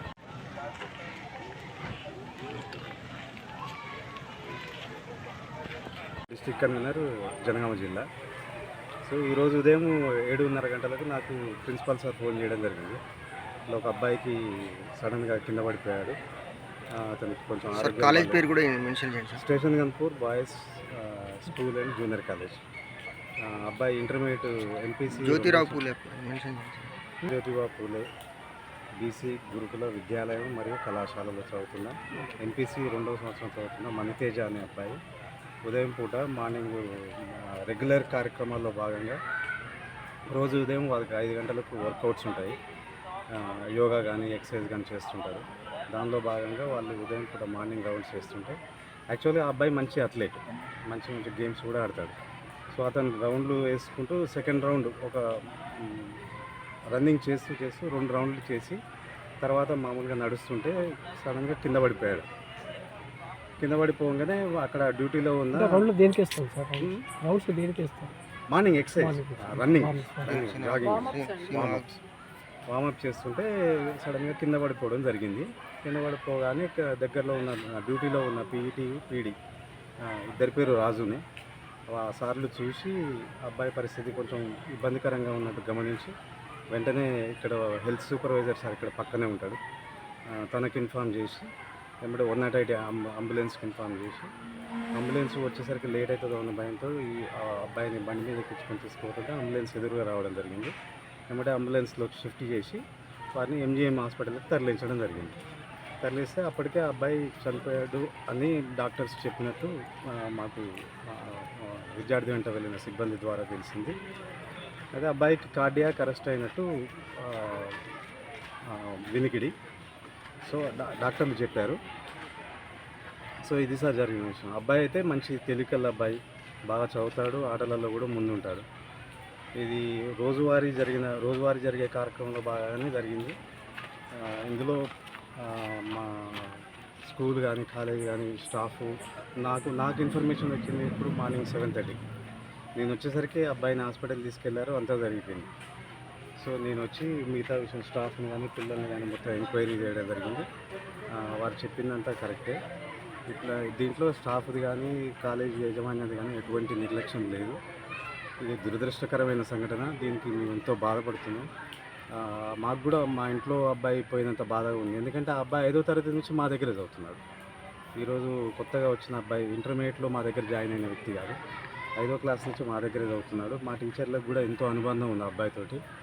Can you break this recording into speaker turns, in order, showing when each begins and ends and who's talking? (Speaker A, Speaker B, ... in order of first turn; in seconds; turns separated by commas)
Speaker A: 6.3-8.1, Speaker A: 9.1-13.0, Speaker A: 13.7-14.4, Speaker A: 15.0-16.2, Speaker A: 17.0-18.4, Speaker B: 17.7-19.4, Speaker A: 19.4-22.6, Speaker A: 23.4-25.8, Speaker B: 25.3-26.9, Speaker A: 27.3-28.1, Speaker A: 29.0-35.0, Speaker A: 35.6-36.8, Speaker A: 37.6-39.2, Speaker A: 40.3-42.6, Speaker A: 43.4-48.6, Speaker A: 49.1-50.4, Speaker A: 50.9-52.2, Speaker A: 52.7-55.2, Speaker A: 55.8-56.1, Speaker A: 57.0-58.8, Speaker A: 59.4-62.3, Speaker A: 63.6-65.7, Speaker C: 65.5-68.1, Speaker A: 68.5-72.0, Speaker C: 69.0-70.4, Speaker B: 70.2-71.9, Speaker A: 72.7-73.5, Speaker A: 74.0-79.3, Speaker A: 80.0-81.2, Speaker A: 81.9-83.0, Speaker A: 83.5-86.1, Speaker A: 86.7-89.6, Speaker A: 90.5-91.5, Speaker A: 92.0-94.3, Speaker A: 94.9-100.7, Speaker A: 101.3-102.8, Speaker A: 103.3-105.4, Speaker A: 106.0-114.0, Speaker A: 115.0-116.7, Speaker A: 117.2-117.7, Speaker A: 118.7-119.5, Speaker A: 120.5-121.8, Speaker A: 123.4-126.2, Speaker A: 126.7-128.6, Speaker A: 129.6-133.3, Speaker A: 134.5-134.8, Speaker A: 135.4-136.5, Speaker A: 137.1-142.0, Speaker A: 142.8-145.5, Speaker A: 146.4-150.5, Speaker A: 151.2-152.6, Speaker A: 153.3-157.6, Speaker A: 158.4-161.5, Speaker A: 162.2-167.2, Speaker A: 168.0-171.4, Speaker A: 172.0-175.8